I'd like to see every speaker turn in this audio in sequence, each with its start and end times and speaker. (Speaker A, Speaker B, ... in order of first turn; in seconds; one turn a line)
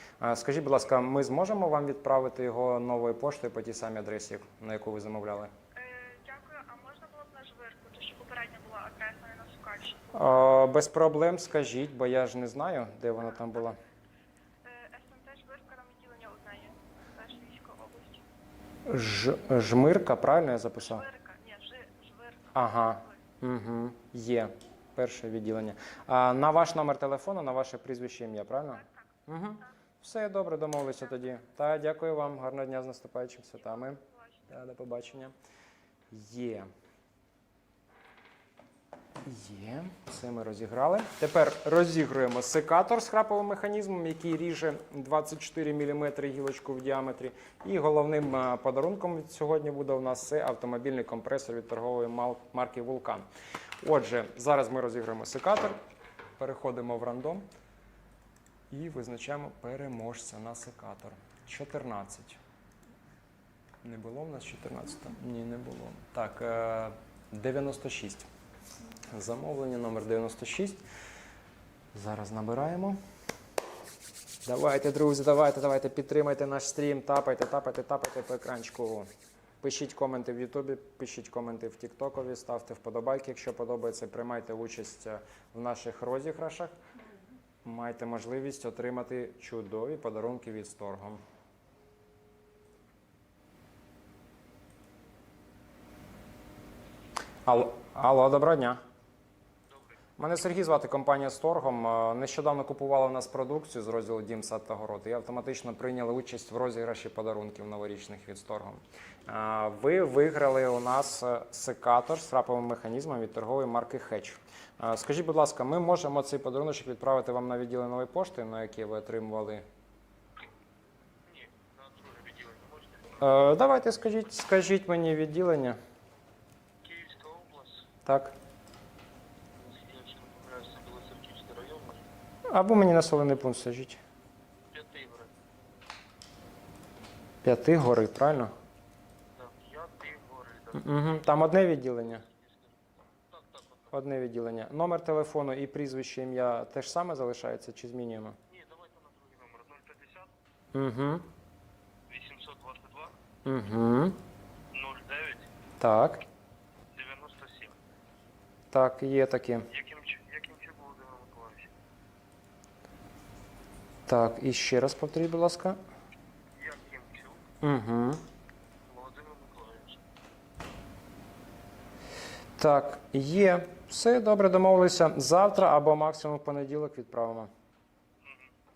Speaker A: 0.2-5.5
Speaker B: 5.8-10.2
Speaker A: 10.1-13.8
Speaker B: 14.6-18.3
Speaker A: 18.9-21.1
Speaker B: 20.8-23.2
Speaker A: 22.5-35.3
Speaker B: 28.7-29.7
Speaker B: 33.6-34.5
Speaker A: 36.1-36.7
Speaker A: 39.2-53.3
Speaker A: 53.8-55.8
Speaker A: 56.4-57.5
Speaker A: 58.7-62.4
Speaker A: 63.8-68.3
Speaker A: 69.1-70.8
Speaker A: 71.9-73.0
Speaker A: 74.5-79.1
Speaker A: 79.6-86.7
Speaker A: 87.6-91.2
Speaker A: 97.5-98.8
Speaker C: 99.7-100.0
Speaker A: 100.2-119.7
Speaker C: 121.3-123.2
Speaker A: 123.2-125.8
Speaker C: 126.8-127.9
Speaker A: 128.1-128.3
Speaker C: 129.6-132.1
Speaker A: 132.5-134.0
Speaker C: 134.7-135.3
Speaker A: 137.4-138.5
Speaker C: 139.3-141.1
Speaker A: 140.8-142.2
Speaker C: 142.2-143.9
Speaker A: 143.9-148.4
Speaker C: 148.5-150.3
Speaker A: 150.7-151.3
Speaker C: 152.1-153.2
Speaker A: 153.4-154.2
Speaker C: 154.7-155.5
Speaker A: 155.8-156.2
Speaker C: 156.9-157.8
Speaker A: 158.7-159.7
Speaker C: 159.7-161.7
Speaker A: 164.1-165.8
Speaker C: 166.5-167.5
Speaker A: 167.6-168.2
Speaker C: 168.9-170.0
Speaker A: 172.6-177.5
Speaker C: 178.2-178.5